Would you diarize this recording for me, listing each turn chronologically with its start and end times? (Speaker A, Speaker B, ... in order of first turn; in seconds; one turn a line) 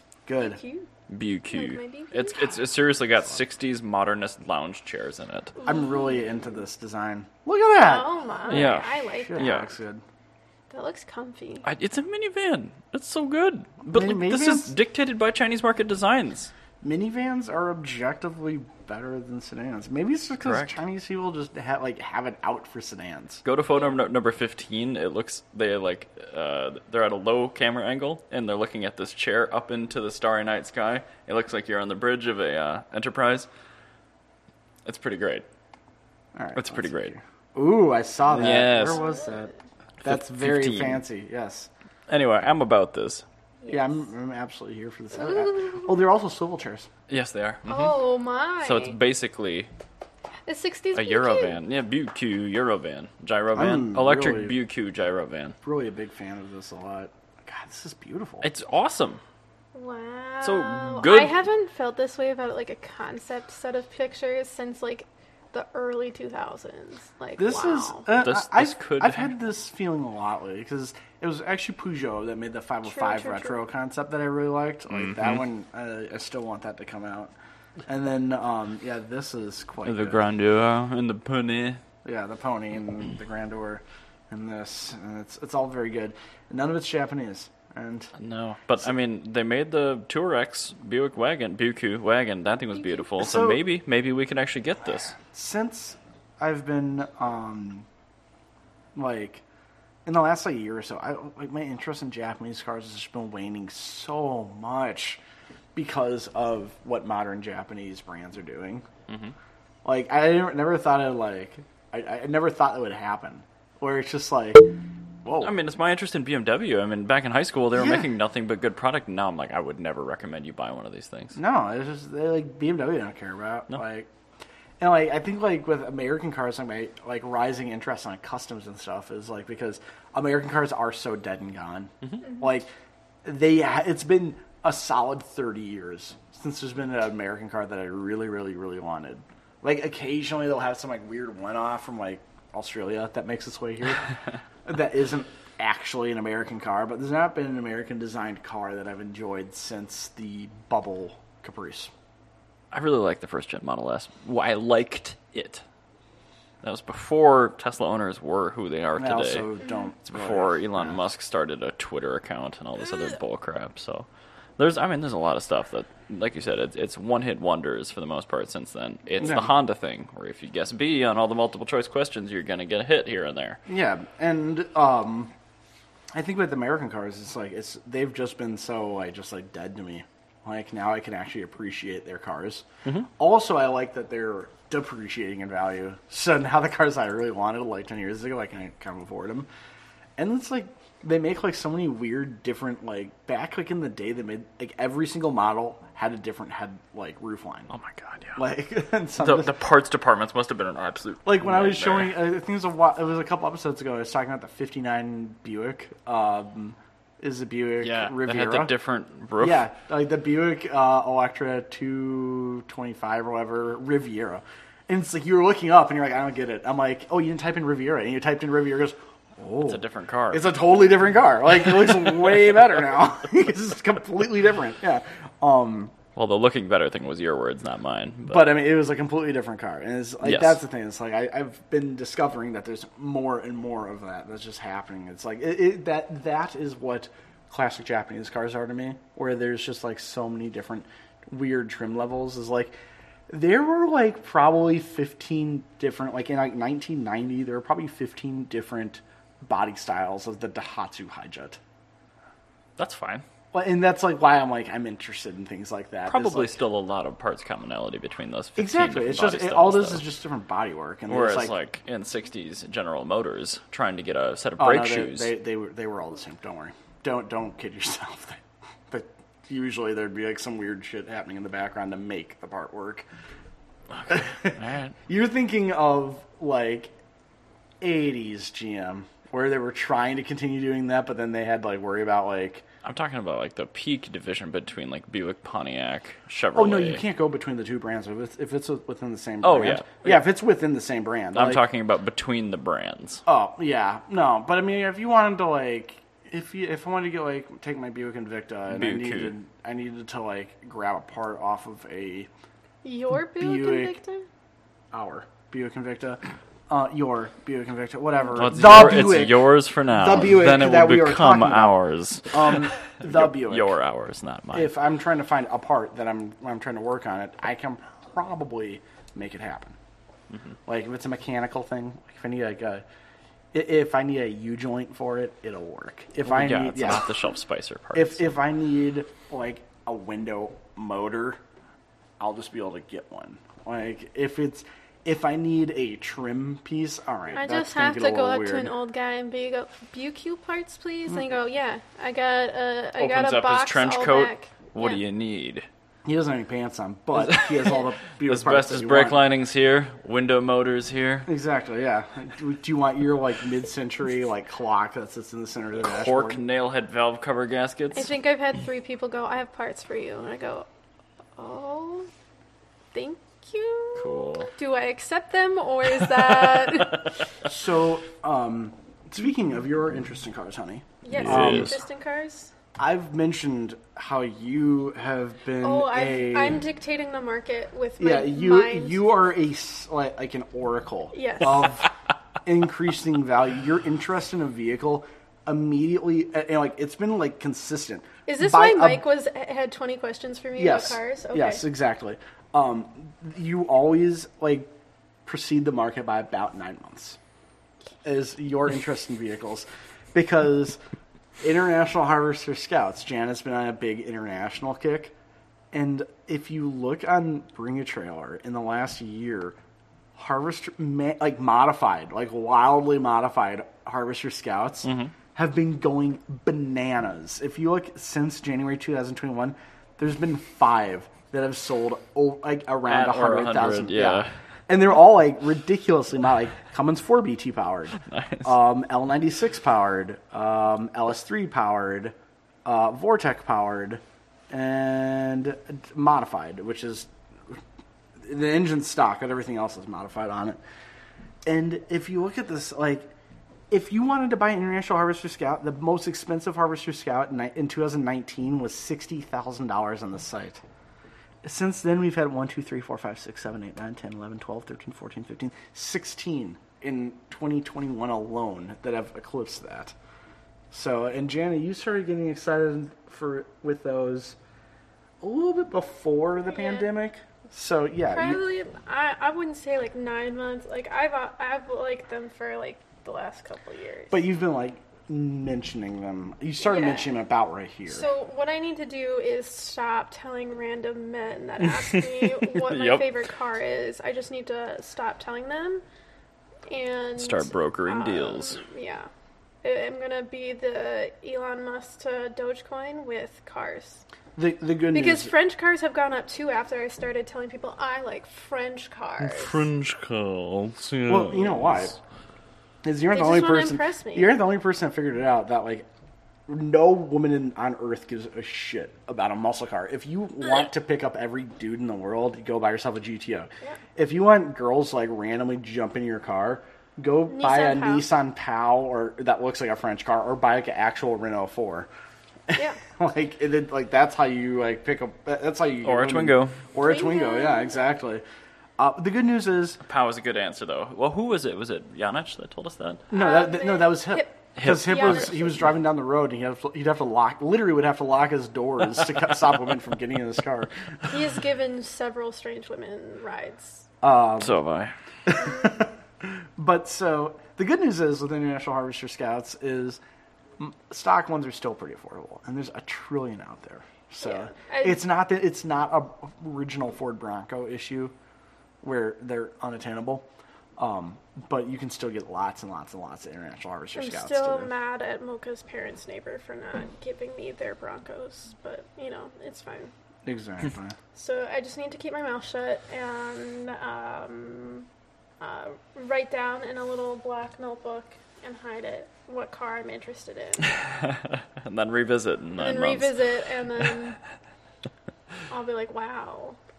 Speaker A: 0.3-0.6
Speaker B: 0.4-0.9
Speaker C: 1.1-5.5
Speaker B: 1.5-2.6
Speaker B: 5.6-6.2
Speaker A: 5.6-10.0
Speaker B: 7.8-9.5
Speaker C: 8.5-9.7
Speaker B: 10.7-11.7
Speaker C: 11.6-16.5
Speaker A: 13.9-14.7
Speaker A: 16.8-23.4
Speaker C: 20.4-20.7
Speaker C: 23.4-33.5
Speaker C: 34.9-35.5
Speaker A: 36.4-39.5
Speaker C: 36.6-37.1
Speaker C: 38.3-39.0
Speaker B: 38.9-39.3
Speaker C: 40.0-41.0
Speaker A: 40.0-41.7
Speaker C: 42.1-43.2
Speaker B: 43.6-43.9
Speaker A: 43.7-46.9
Speaker B: 45.2-45.7
Speaker C: 47.1-48.0
Speaker B: 47.7-49.0
Speaker C: 48.6-49.7
Speaker B: 50.5-51.6
Speaker C: 50.9-55.6
Speaker A: 53.5-54.6
Speaker A: 55.6-58.5
Speaker C: 58.4-59.2
Speaker B: 59.7-68.1
Speaker C: 60.4-61.4
Speaker A: 67.4-77.3
Speaker C: 68.1-69.3
Speaker B: 72.9-73.6
Speaker C: 74.9-75.4
Speaker A: 77.9-80.2
Speaker C: 79.8-81.8
Speaker A: 82.0-88.1
Speaker C: 88.2-95.2
Speaker A: 93.2-93.6
Speaker A: 95.2-97.9
Speaker A: 99.0-99.4
Speaker A: 100.1-105.2
Speaker A: 105.8-108.9
Speaker C: 109.1-109.3
Speaker A: 109.8-114.7
Speaker A: 115.2-115.5
Speaker C: 115.4-121.4
Speaker A: 117.8-118.1
Speaker A: 121.3-124.1
Speaker A: 124.8-132.7
Speaker A: 133.2-144.1
Speaker A: 144.7-151.9
Speaker C: 152.7-155.6
Speaker C: 156.6-159.5
Speaker A: 159.0-161.1
Speaker C: 160.1-164.1
Speaker C: 164.6-173.6
Speaker A: 169.2-169.5
Speaker A: 173.7-175.3
Speaker A: 176.1-189.5
Speaker A: 190.2-197.7
Speaker C: 197.7-198.4
Speaker A: 198.4-199.6
Speaker C: 199.2-202.2
Speaker A: 201.2-208.7
Speaker C: 207.8-209.7
Speaker A: 209.4-225.9
Speaker C: 219.6-220.5
Speaker C: 226.2-228.5
Speaker A: 228.3-242.8
Speaker C: 230.2-230.6
Speaker A: 243.3-251.6
Speaker C: 252.8-253.2
Speaker A: 253.5-256.6
Speaker C: 256.1-260.1
Speaker A: 258.6-261.5
Speaker C: 261.1-265.3
Speaker A: 264.6-273.1
Speaker C: 273.9-274.9
Speaker A: 274.1-276.9
Speaker A: 277.8-282.6
Speaker C: 282.8-287.0
Speaker A: 286.6-291.6
Speaker C: 289.4-290.3
Speaker C: 291.4-293.2
Speaker A: 293.3-302.3
Speaker C: 298.7-299.3
Speaker B: 302.8-304.3
Speaker A: 303.3-304.0
Speaker A: 304.9-311.8
Speaker C: 308.3-314.7
Speaker A: 312.3-313.8
Speaker A: 314.5-319.8
Speaker A: 320.7-322.8
Speaker A: 323.5-327.1
Speaker C: 326.2-328.2
Speaker A: 327.9-331.4
Speaker A: 332.2-338.7
Speaker B: 337.4-345.0
Speaker C: 343.0-345.7
Speaker A: 346.1-349.2
Speaker C: 347.1-351.3
Speaker A: 351.3-356.4
Speaker C: 355.8-358.1
Speaker B: 357.9-360.7
Speaker B: 361.4-362.1
Speaker B: 362.9-367.1
Speaker C: 364.0-364.5
Speaker C: 366.1-367.0
Speaker A: 367.4-371.8
Speaker B: 371.0-372.5
Speaker C: 371.1-371.8
Speaker A: 372.8-376.6
Speaker B: 375.6-379.0
Speaker A: 378.0-381.9
Speaker B: 381.1-381.7
Speaker A: 382.4-389.0
Speaker B: 388.3-391.6
Speaker A: 390.6-394.7
Speaker A: 395.2-397.2
Speaker A: 398.0-400.8
Speaker A: 401.4-405.1
Speaker A: 405.7-409.6
Speaker A: 410.2-437.6
Speaker C: 414.8-415.1
Speaker C: 422.9-424.3
Speaker C: 428.1-428.5
Speaker A: 438.2-440.6
Speaker A: 441.5-443.1
Speaker A: 443.7-450.6
Speaker A: 451.4-459.9
Speaker A: 460.7-464.4
Speaker A: 465.2-468.4
Speaker B: 466.4-466.9
Speaker B: 468.1-474.2
Speaker A: 474.1-478.1
Speaker B: 476.6-477.1
Speaker B: 477.9-485.8
Speaker C: 481.9-483.1
Speaker B: 486.7-489.1
Speaker C: 487.2-488.6
Speaker B: 489.6-494.0
Speaker A: 494.4-495.3
Speaker B: 494.9-499.6
Speaker C: 499.2-501.9
Speaker A: 501.1-502.0
Speaker A: 502.8-505.9
Speaker B: 503.1-504.3
Speaker A: 506.5-521.9
Speaker B: 517.3-518.1
Speaker A: 522.5-528.2
Speaker C: 525.8-526.6
Speaker B: 526.8-527.9
Speaker A: 528.8-529.8
Speaker C: 529.9-533.1
Speaker A: 533.1-540.7
Speaker B: 533.1-535.6
Speaker C: 534.6-535.3
Speaker B: 541.1-543.9
Speaker A: 544.0-544.6
Speaker C: 544.4-544.9
Speaker A: 545.3-550.0
Speaker A: 550.6-558.1
Speaker B: 554.2-555.0
Speaker A: 558.8-560.3
Speaker A: 560.8-564.7
Speaker B: 564.0-569.9
Speaker A: 570.2-571.0
Speaker B: 571.1-574.9
Speaker B: 575.4-580.7
Speaker C: 580.7-583.2
Speaker B: 582.6-584.2
Speaker B: 585.5-586.6